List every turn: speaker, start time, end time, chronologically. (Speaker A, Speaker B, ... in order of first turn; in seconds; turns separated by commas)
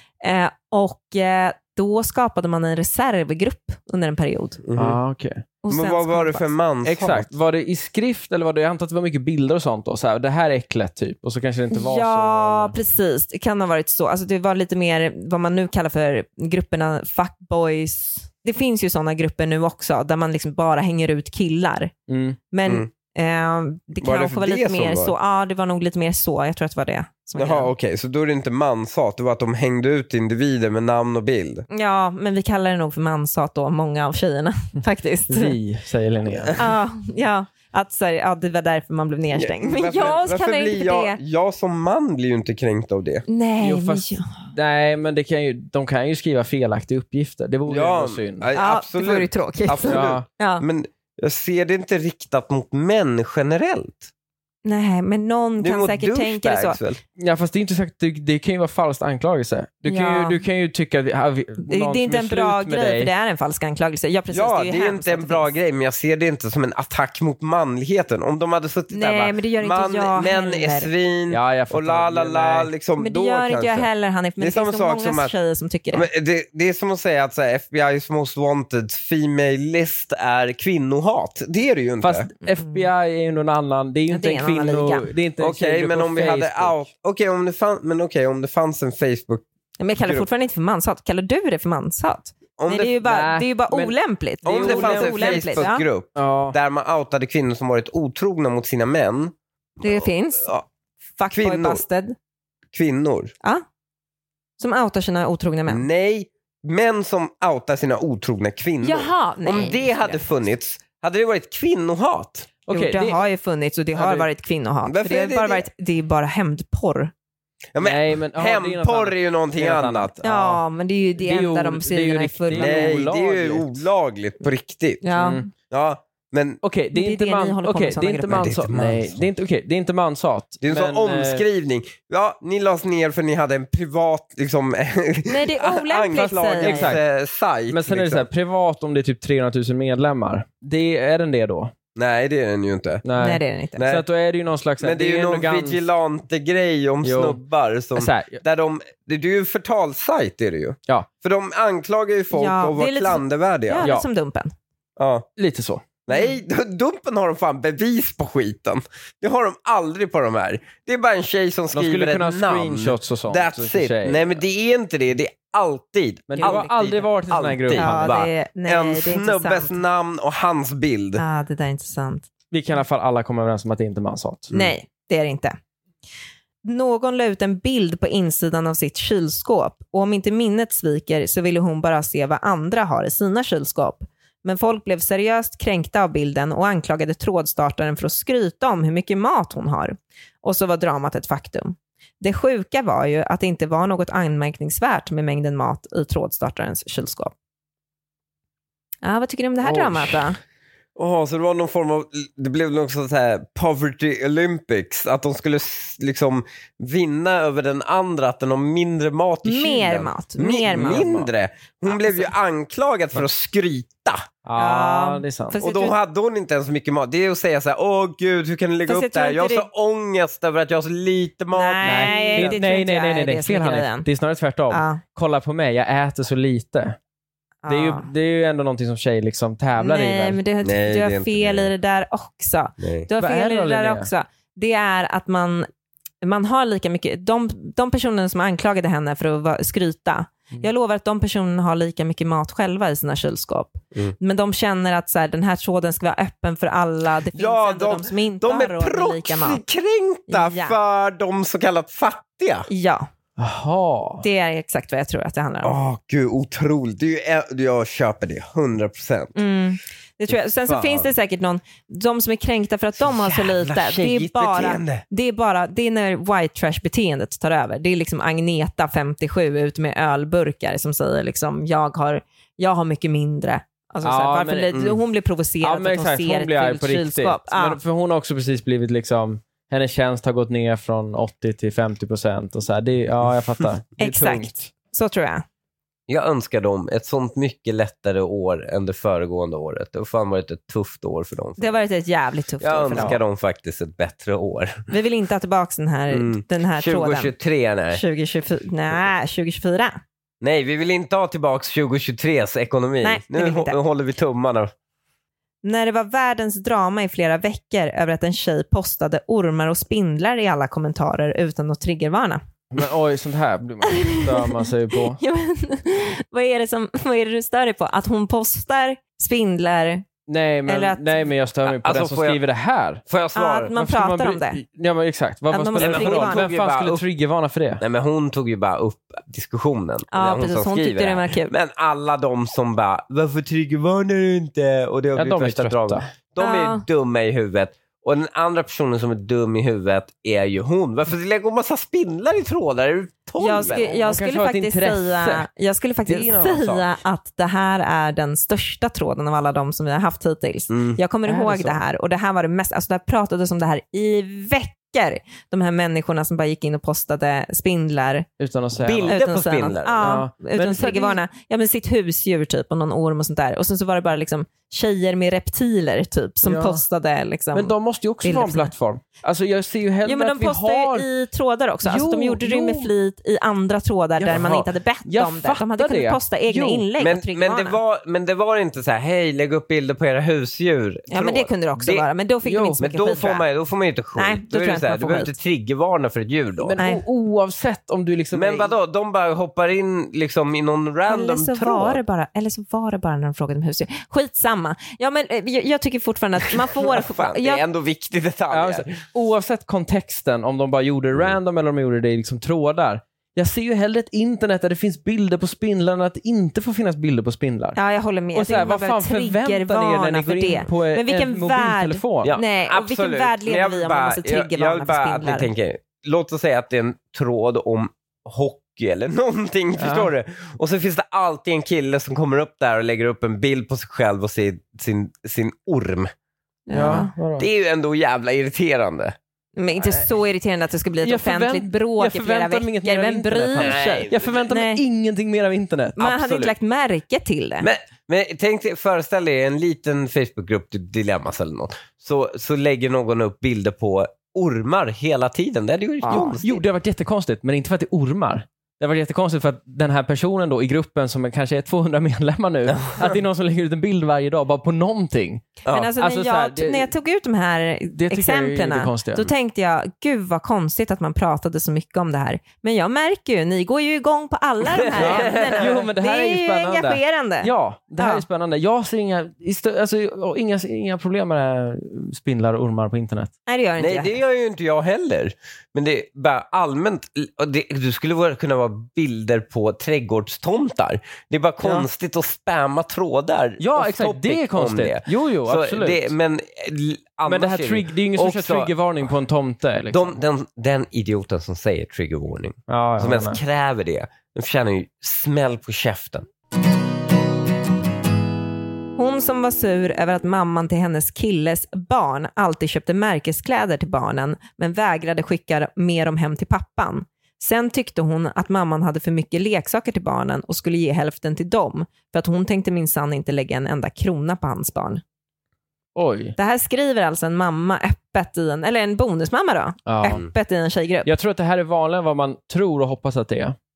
Speaker A: 0.2-4.6, Speaker B: 4.6-5.0, Speaker C: 4.8-5.4, Speaker A: 5.6-6.5, Speaker B: 5.7-7.3, Speaker C: 6.8-12.7, Speaker A: 11.7-21.9, Speaker C: 22.1-22.4, Speaker A: 22.5-27.7, Speaker B: 24.0-25.1, Speaker B: 27.4-31.6, Speaker A: 31.7-35.6, Speaker C: 35.3-36.6, Speaker A: 36.5-41.2, Speaker B: 39.3-43.2, Speaker A: 43.3-44.3, Speaker C: 43.6-48.5, Speaker B: 47.7-54.1, Speaker A: 48.5-50.6, Speaker C: 49.9-50.2, Speaker A: 54.6-56.8, Speaker B: 55.6-57.0, Speaker C: 57.2-63.1, Speaker A: 59.9-60.4, Speaker A: 61.6-65.5, Speaker B: 64.3-73.9, Speaker A: 68.9-70.9, Speaker C: 71.3-72.7, Speaker A: 73.0-76.1, Speaker B: 74.4-75.3, Speaker B: 75.9-82.3, Speaker C: 82.0-86.8, Speaker A: 82.6-82.9, Speaker A: 84.1-85.1, Speaker B: 85.4-89.4, Speaker A: 89.8-95.8, Speaker B: 90.0-90.2, Speaker B: 92.6-93.0, Speaker C: 93.0-96.6, Speaker B: 94.5-100.6, Speaker A: 99.8-100.5, Speaker A: 101.2-102.2, Speaker B: 101.3-101.8, Speaker B: 102.7-103.3, Speaker A: 104.6-105.8, Speaker B: 105.7-112.5, Speaker A: 108.8-110.2, Speaker C: 112.7-113.2, Speaker A: 112.7-117.1, Speaker C: 114.0-114.3, Speaker B: 114.8-115.7, Speaker B: 117.7-120.1, Speaker C: 117.8-120.6, Speaker A: 120.2-123.0, Speaker C: 121.2-123.8, Speaker B: 122.5-126.6, Speaker A: 125.0-125.4, Speaker C: 125.1-125.5, Speaker C: 126.6-131.4, Speaker A: 126.9-128.5, Speaker B: 128.3-129.2, Speaker B: 130.6-138.3, Speaker A: 135.3-136.9, Speaker C: 136.6-137.0, Speaker C: 137.7-141.7, Speaker B: 141.9-143.0, Speaker C: 143.0-145.8, Speaker A: 143.2-143.8, Speaker B: 143.8-144.0, Speaker B: 144.8-153.9, Speaker C: 147.0-147.4, Speaker C: 147.9-148.4, Speaker A: 152.3-154.5, Speaker B: 155.0-155.3, Speaker C: 155.4-155.8, Speaker B: 156.1-171.2, Speaker C: 161.7-164.4, Speaker C: 166.3-168.1, Speaker A: 166.4-166.7, Speaker A: 167.7-169.8, Speaker A: 171.2-172.3, Speaker C: 172.5-174.5, Speaker A: 174.5-175.6, Speaker A: 176.6-197.3, Speaker A: 199.0-200.4, Speaker B: 199.6-200.2, Speaker B: 200.9-214.2, Speaker A: 209.4-211.1, Speaker C: 210.7-211.3, Speaker A: 211.8-212.3, Speaker C: 214.4-215.6, Speaker A: 214.6-215.9, Speaker B: 215.6-222.6, Speaker A: 218.9-219.7, Speaker A: 221.5-224.1, Speaker C: 221.8-227.0, Speaker A: 224.7-225.0, Speaker A: 227.6-228.1, Speaker C: 227.7-230.4, Speaker A: 229.8-235.7, Speaker B: 230.6-231.7, Speaker B: 232.8-233.1, Speaker C: 233.2-234.1, Speaker A: 236.2-249.6, Speaker B: 247.3-252.7, Speaker A: 250.3-250.8, Speaker A: 252.7-253.1, Speaker C: 253.4-254.2, Speaker A: 254.2-255.7, Speaker B: 255.6-259.4, Speaker A: 259.3-277.8, Speaker B: 260.7-261.1, Speaker B: 263.0-265.0, Speaker C: 274.0-274.8, Speaker B: 274.7-275.0, Speaker C: 275.6-284.7, Speaker A: 284.0-285.4, Speaker B: 286.1-291.8, Speaker A: 291.6-293.2, Speaker B: 292.6-294.8, Speaker C: 292.9-293.2, Speaker A: 294.9-297.3, Speaker B: 296.1-298.0, Speaker A: 297.9-300.0, Speaker B: 300.4-304.7, Speaker A: 303.0-303.8, Speaker A: 305.6-312.4, Speaker C: 312.7-315.2, Speaker A: 313.9-320.1, Speaker C: 320.3-323.0, Speaker A: 320.7-321.2, Speaker B: 321.6-322.4, Speaker B: 323.1-323.8, Speaker A: 323.3-324.6, Speaker C: 323.8-327.8, Speaker A: 325.5-326.4, Speaker B: 325.8-327.0, Speaker B: 327.8-344.0, Speaker A: 330.1-331.5, Speaker C: 335.1-336.1, Speaker A: 336.4-336.8, Speaker A: 343.4-358.3, Speaker C: 343.6-345.4, Speaker C: 346.1-346.9, Speaker B: 350.7-351.0, Speaker C: 351.2-351.8, Speaker C: 358.4-359.2, Speaker B: 358.8-360.2, Speaker A: 359.1-368.7, Speaker C: 360.0-361.2, Speaker C: 366.4-366.8, Speaker C: 367.5-371.1, Speaker A: 370.0-377.8, Speaker C: 371.8-372.9, Speaker C: 374.2-376.9, Speaker B: 377.0-382.1, Speaker A: 381.1-383.4, Speaker C: 382.4-382.8, Speaker B: 382.8-386.8, Speaker A: 384.2-385.3, Speaker C: 386.6-388.7, Speaker B: 388.3-392.0, Speaker A: 391.1-397.6, Speaker B: 396.5-399.0, Speaker C: 398.5-407.8, Speaker A: 407.8-415.5, Speaker C: 408.3-412.4, Speaker B: 412.2-426.1, Speaker C: 419.8-420.1, Speaker A: 426.7-427.1, Speaker C: 426.7-427.5, Speaker B: 427.4-429.1, Speaker A: 429.6-434.8, Speaker C: 431.0-436.5, Speaker B: 433.6-434.3, Speaker A: 436.0-437.7, Speaker B: 437.6-446.6, Speaker A: 446.0-446.4, Speaker C: 446.4-456.9, Speaker B: 452.8-453.1, Speaker A: 455.7-468.2, Speaker C: 457.9-459.3, Speaker B: 464.7-465.6, Speaker C: 464.9-473.3, Speaker A: 473.5-474.1, Speaker B: 473.8-488.7, Speaker C: 481.6-481.9, Speaker C: 483.6-486.1, Speaker C: 487.2-490.1, Speaker B: 489.9-496.2, Speaker C: 492.7-493.4, Speaker A: 499.0-515.0, Speaker C: 515.9-516.4, Speaker A: 516.4-521.1, Speaker C: 519.9-520.2, Speaker C: 521.0-523.5